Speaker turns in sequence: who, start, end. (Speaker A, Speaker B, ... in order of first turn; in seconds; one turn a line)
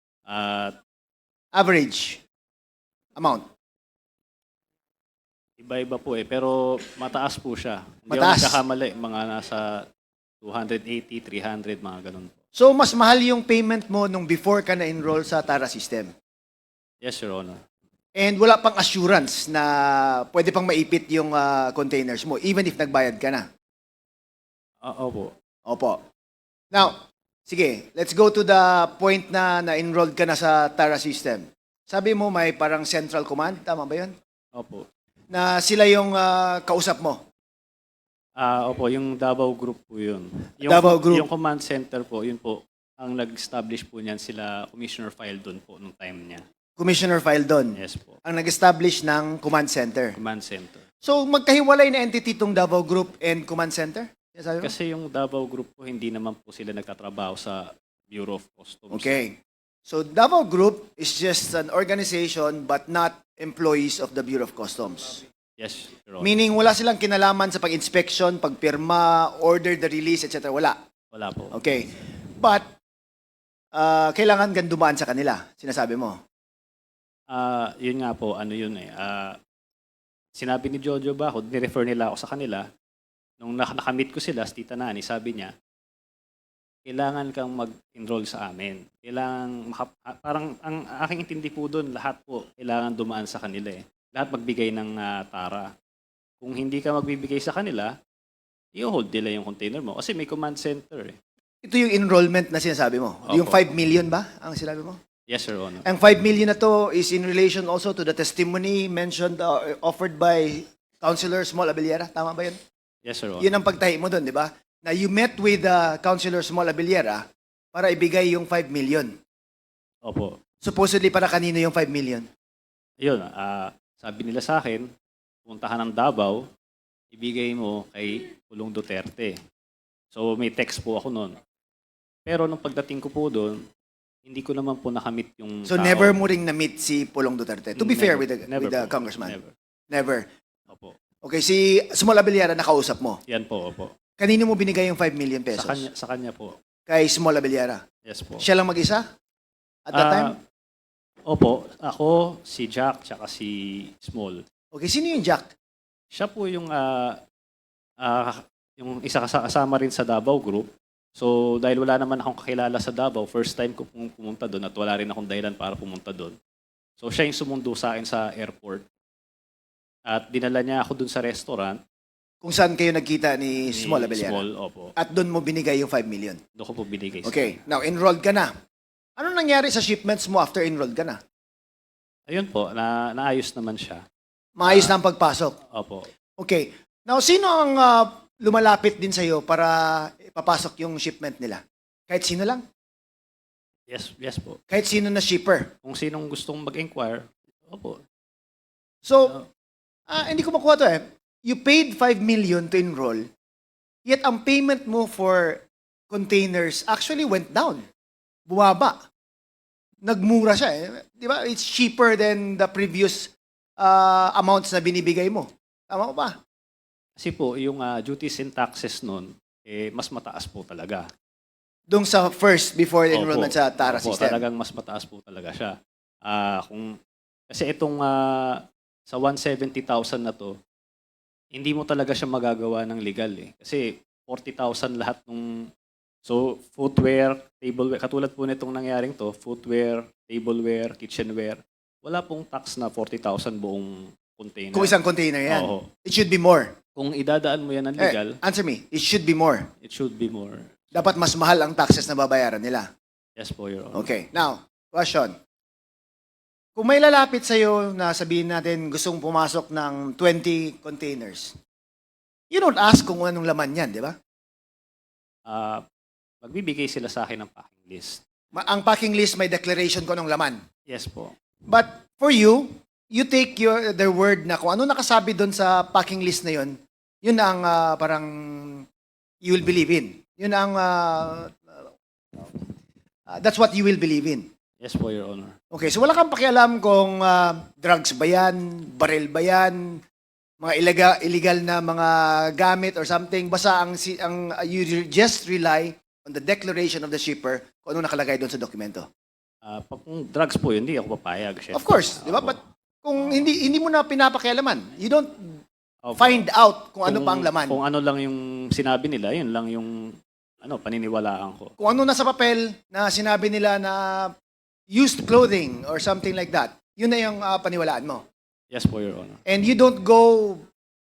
Speaker A: 0.3-0.7
Speaker B: 1.5-2.2
Speaker B: 3.2-3.5
Speaker A: 5.6-9.7
Speaker B: 8.1-8.6
Speaker A: 10.4-12.3
Speaker B: 12.5-16.1
Speaker A: 17.0-17.6
Speaker B: 18.1-23.4
Speaker A: 24.8-25.3
Speaker B: 25.6-26.0
Speaker B: 26.7-34.1
Speaker A: 34.5-34.9
Speaker B: 35.3-37.2
Speaker A: 38.4-46.4
Speaker B: 40.6-41.3
Speaker B: 46.8-50.1
Speaker A: 47.8-48.1
Speaker A: 50.1-50.8
Speaker B: 51.0-54.7
Speaker A: 54.6-59.2
Speaker B: 58.9-65.2
Speaker A: 65.6-66.3
Speaker B: 66.2-70.8
Speaker A: 71.1-71.6
Speaker B: 71.5-72.7
Speaker B: 73.7-76.2
Speaker A: 77.3-79.3
Speaker A: 80.3-82.6
Speaker A: 83.4-85.5
Speaker A: 86.8-95.7
Speaker A: 96.4-97.9
Speaker A: 98.8-101.2
Speaker B: 101.6-105.0
Speaker A: 103.2-103.7
Speaker A: 105.3-105.9
Speaker B: 105.8-112.6
Speaker A: 113.0-113.5
Speaker B: 113.4-119.2
Speaker A: 120.0-120.3
Speaker B: 120.6-122.3
Speaker A: 123.0-124.9
Speaker A: 125.5-126.4
Speaker A: 127.1-129.3
Speaker A: 130.1-131.3
Speaker A: 132.2-133.6
Speaker A: 134.2-136.2
Speaker B: 135.7-139.3
Speaker A: 137.7-139.5
Speaker B: 139.9-140.2
Speaker B: 141.2-143.2
Speaker A: 143.3-143.9
Speaker B: 144.2-145.8
Speaker A: 145.5-146.5
Speaker B: 146.9-147.8
Speaker A: 148.0-148.4
Speaker B: 148.4-149.1
Speaker B: 149.9-150.3
Speaker A: 149.9-150.3
Speaker A: 151.3-154.4
Speaker B: 154.7-155.5
Speaker A: 156.1-157.2
Speaker A: 158.0-166.3
Speaker A: 167.0-168.8
Speaker A: 170.1-171.8
Speaker B: 172.4-174.4
Speaker A: 173.7-174.9
Speaker B: 175.0-176.4
Speaker A: 176.6-177.6
Speaker B: 177.2-178.5
Speaker B: 179.2-181.2
Speaker A: 182.3-184.0
Speaker B: 184.6-185.6
Speaker A: 184.6-184.9
Speaker A: 185.7-186.1
Speaker B: 186.4-192.6
Speaker A: 193.9-194.6
Speaker B: 194.7-195.7
Speaker A: 195.8-198.0
Speaker B: 199.0-199.4
Speaker B: 200.1-203.2
Speaker B: 204.1-207.8
Speaker B: 208.5-209.0
Speaker B: 210.0-216.4
Speaker A: 217.2-221.1
Speaker B: 221.9-224.4
Speaker A: 223.1-225.7
Speaker A: 226.2-226.9
Speaker A: 227.5-228.5
Speaker A: 229.1-230.5
Speaker A: 231.5-235.4
Speaker A: 236.2-244.9
Speaker B: 244.7-246.7
Speaker A: 245.5-245.8
Speaker A: 246.9-248.3
Speaker B: 248.0-249.7
Speaker A: 249.8-250.6
Speaker B: 250.9-252.9
Speaker A: 253.4-254.1
Speaker B: 253.9-255.3
Speaker B: 256.8-261.6
Speaker B: 262.5-264.1
Speaker A: 265.5-265.8
Speaker A: 266.4-268.2
Speaker B: 268.5-270.6
Speaker A: 270.9-271.3
Speaker B: 271.7-278.8
Speaker B: 279.4-282.7
Speaker B: 283.3-284.5
Speaker A: 284.8-285.6
Speaker B: 285.7-290.0
Speaker B: 290.6-299.1
Speaker A: 299.6-302.6
Speaker B: 301.7-305.6
Speaker A: 306.0-306.4
Speaker B: 306.2-307.8
Speaker A: 307.0-309.9
Speaker A: 310.6-311.7
Speaker B: 311.8-314.3
Speaker B: 314.9-318.2
Speaker A: 318.7-319.4
Speaker B: 319.4-320.6